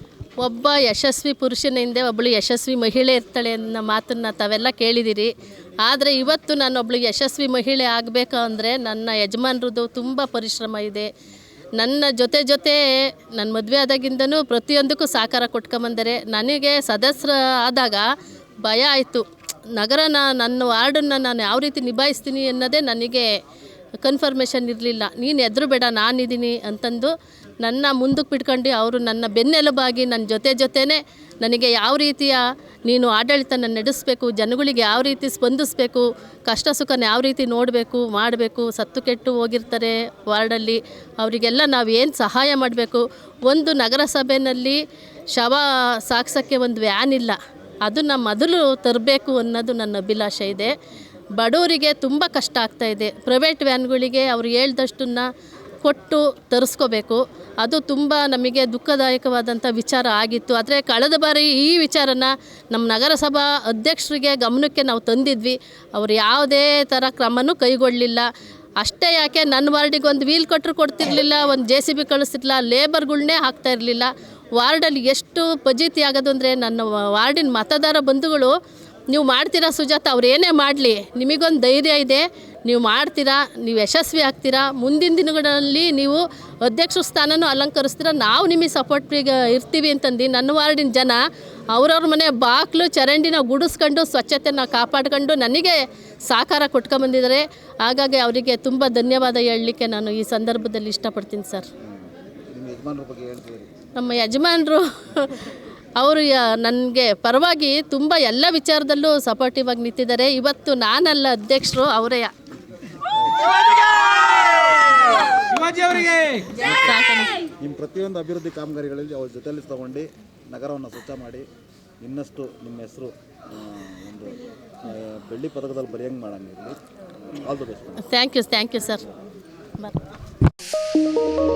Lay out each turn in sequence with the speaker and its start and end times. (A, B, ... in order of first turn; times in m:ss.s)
0:00.4-0:11.1 A
0:11.8-0:18.1 A
0:18.6-0:23.3 A
0:24.0-0:44.8 A
0:45.3-0:50.8 A
0:51.4-0:55.3 A
0:55.8-1:08.3 A
1:08.8-1:18.5 A
1:19.1-1:31.2 A
1:31.7-1:41.7 A
1:41.8-1:43.7 B
1:44.0-1:52.3 A
1:53.1-1:53.5 B
1:55.6-1:57.4 A
1:56.5-1:57.0 B
1:57.6-2:01.4 B
2:02.0-2:06.8 B
2:07.4-2:08.0 B
2:08.0-2:09.0 A